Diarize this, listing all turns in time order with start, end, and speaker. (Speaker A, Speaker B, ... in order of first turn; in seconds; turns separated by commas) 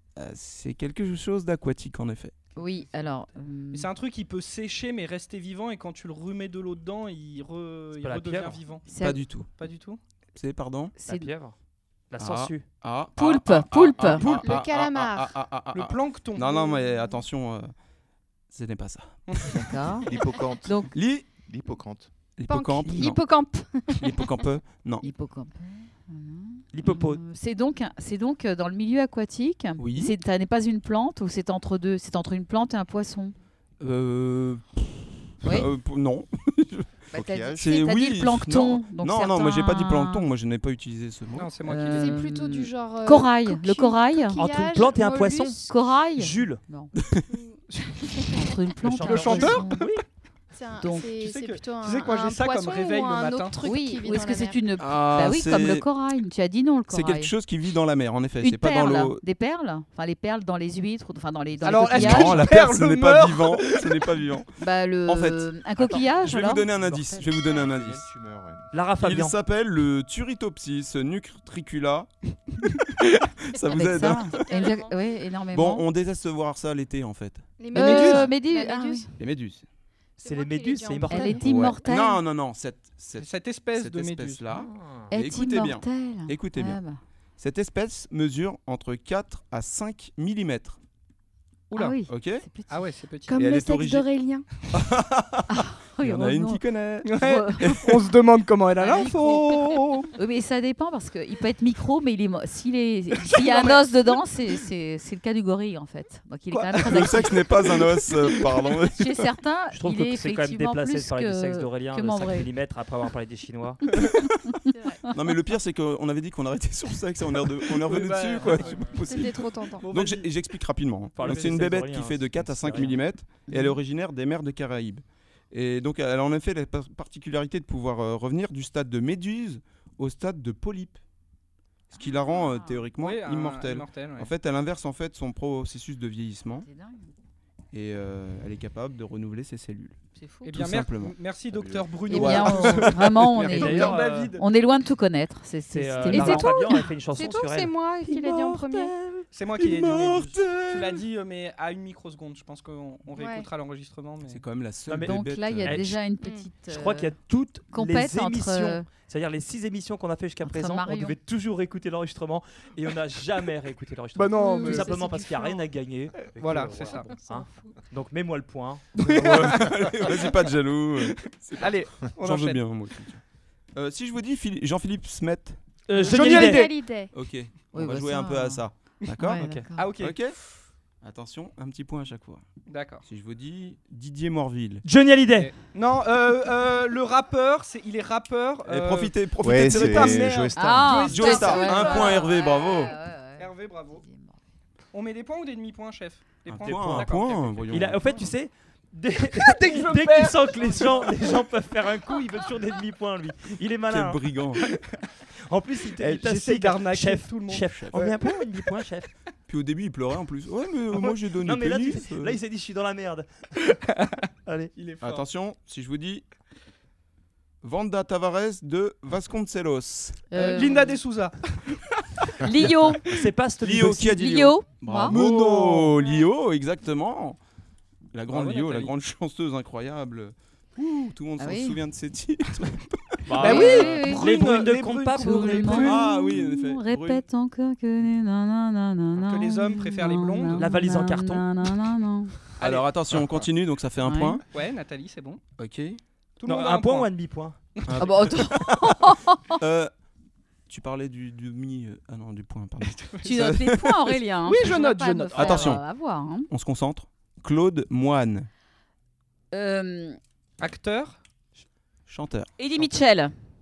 Speaker A: 0.1-2.3, Speaker B: 2.5-3.9, Speaker C: 3.7-8.9, Speaker D: 8.0-8.6, Speaker B: 8.9-9.2, Speaker A: 9.0-9.5, Speaker C: 9.5-10.0, Speaker A: 10.3-10.9, Speaker B: 11.0-11.3, Speaker D: 11.1-11.5, Speaker D: 12.1-12.6, Speaker A: 12.2-17.7, Speaker B: 13.2-14.3, Speaker E: 14.1-15.4, Speaker C: 15.7-16.8, Speaker A: 18.5-19.5, Speaker B: 19.5-20.1, Speaker F: 20.0-22.1, Speaker A: 20.9-21.3, Speaker A: 22.4-23.2, Speaker E: 22.5-24.3, Speaker A: 24.0-25.1, Speaker B: 25.0-33.3, Speaker D: 26.7-27.2, Speaker A: 29.8-30.1, Speaker A: 33.8-37.0, Speaker B: 35.4-35.7, Speaker F: 37.1-37.8, Speaker B: 37.1-40.3, Speaker A: 37.5-41.5, Speaker C: 41.3-42.2, Speaker B: 41.6-44.4, Speaker E: 42.0-45.8, Speaker D: 44.4-45.6, Speaker B: 45.7-46.9, Speaker D: 46.1-46.6, Speaker E: 47.3-47.6, Speaker C: 47.7-48.3, Speaker B: 48.2-50.0, Speaker D: 48.8-49.7, Speaker C: 49.0-50.0, Speaker E: 50.5-54.6, Speaker B: 50.8-51.1, Speaker C: 51.2-53.6, Speaker B: 53.6-57.3, Speaker A: 54.8-55.9, Speaker A: 56.9-59.2, Speaker B: 58.4-62.4, Speaker C: 61.6-64.1, Speaker A: 61.8-64.5, Speaker B: 64.6-66.7, Speaker A: 65.0-65.5, Speaker D: 65.8-67.3, Speaker A: 66.2-68.0, Speaker F: 67.6-68.7, Speaker D: 68.7-69.3, Speaker A: 69.0-72.1, Speaker A: 73.0-74.5, Speaker B: 73.7-75.8, Speaker E: 74.4-75.0, Speaker A: 75.5-78.2, Speaker E: 77.6-79.1, Speaker B: 77.7-79.1, Speaker C: 77.8-78.3, Speaker A: 79.2-79.7, Speaker E: 80.2-81.7, Speaker D: 80.2-81.4, Speaker B: 81.1-82.2, Speaker A: 81.4-86.8, Speaker C: 83.2-84.5, Speaker D: 84.5-85.1, Speaker B: 85.1-87.0, Speaker A: 87.4-90.8, Speaker C: 91.7-92.0, Speaker B: 91.7-92.8, Speaker A: 92.1-92.5, Speaker C: 92.7-93.3, Speaker E: 93.3-94.5, Speaker A: 93.3-94.0, Speaker A: 94.7-98.0, Speaker B: 95.5-97.9, Speaker C: 97.0-100.1, Speaker B: 98.8-107.5, Speaker C: 103.2-103.9, Speaker A: 106.8-109.2, Speaker C: 106.9-107.2, Speaker B: 108.9-112.5, Speaker D: 109.7-114.0, Speaker A: 114.2-114.5, Speaker E: 114.7-115.0, Speaker A: 115.1-131.0, Speaker C: 117.8-119.2, Speaker E: 119.0-119.9, Speaker C: 119.8-120.3, Speaker D: 121.2-123.0, Speaker B: 123.5-123.8, Speaker A: 131.9-136.7, Speaker B: 131.9-132.9, Speaker C: 133.0-134.3, Speaker B: 136.6-137.1, Speaker A: 137.7-140.0, Speaker B: 140.2-140.5, Speaker C: 140.4-144.4, Speaker A: 140.5-141.2, Speaker F: 141.5-142.0, Speaker B: 142.1-146.8, Speaker A: 142.1-143.7, Speaker D: 143.5-144.3, Speaker D: 145.7-147.7, Speaker E: 146.1-148.9, Speaker A: 148.0-151.0, Speaker C: 149.3-154.4, Speaker E: 153.1-153.5, Speaker A: 154.3-155.9, Speaker D: 154.9-156.0, Speaker B: 155.0-157.2, Speaker E: 156.2-156.5, Speaker D: 156.7-170.0, Speaker B: 157.7-158.8, Speaker B: 160.4-161.2, Speaker C: 164.1-165.1, Speaker E: 164.5-165.5, Speaker C: 166.2-167.1, Speaker E: 167.2-167.7, Speaker C: 169.0-170.4, Speaker A: 169.2-173.2, Speaker C: 171.1-172.6, Speaker A: 173.7-175.6, Speaker D: 175.9-176.7, Speaker C: 175.9-176.7, Speaker E: 176.0-177.1, Speaker A: 177.1-179.4, Speaker B: 177.7-178.6, Speaker B: 179.2-179.9, Speaker D: 179.4-179.7, Speaker C: 179.7-180.2, Speaker A: 180.0-180.4, Speaker A: 181.0-182.4, Speaker C: 182.7-183.0, Speaker A: 183.0-184.8, Speaker D: 184.8-185.5, Speaker C: 185.3-192.4, Speaker A: 188.6-190.4, Speaker F: 189.4-191.1, Speaker B: 190.5-194.4, Speaker A: 191.0-192.9, Speaker C: 193.4-194.0, Speaker C: 194.9-197.7, Speaker A: 196.5-198.2, Speaker D: 197.7-204.2, Speaker C: 199.3-201.3, Speaker A: 203.9-204.6, Speaker C: 204.7-204.9, Speaker D: 205.5-209.1, Speaker C: 206.0-208.4, Speaker A: 209.5-212.4, Speaker D: 211.4-213.6, Speaker C: 213.7-214.2, Speaker D: 214.4-214.7, Speaker C: 214.8-215.2, Speaker A: 215.0-216.2, Speaker A: 217.6-220.2, Speaker B: 220.3-221.0, Speaker C: 220.3-222.3, Speaker B: 222.4-223.1, Speaker D: 223.1-224.2, Speaker A: 223.6-227.4, Speaker B: 224.0-225.2, Speaker C: 225.0-226.0, Speaker A: 228.1-233.8, Speaker C: 228.3-228.9, Speaker B: 231.4-231.8, Speaker D: 233.3-235.9, Speaker C: 233.3-236.1, Speaker B: 233.4-234.3, Speaker B: 235.1-242.3, Speaker A: 235.7-237.2, Speaker C: 239.2-240.7, Speaker D: 240.6-241.5, Speaker C: 242.6-242.9, Speaker A: 242.6-244.4, Speaker B: 244.0-244.4, Speaker C: 244.5-245.4, Speaker A: 245.6-246.0, Speaker C: 246.4-247.1, Speaker D: 246.4-247.6, Speaker C: 247.8-248.0, Speaker A: 247.8-249.9, Speaker B: 248.0-249.6, Speaker A: 250.7-254.2, Speaker C: 252.9-253.4, Speaker B: 253.2-256.5, Speaker C: 254.4-255.7, Speaker A: 255.3-255.8, Speaker A: 256.5-258.5, Speaker B: 259.5-260.2, Speaker C: 260.6-261.2, Speaker A: 262.1-262.5, Speaker B: 262.6-263.3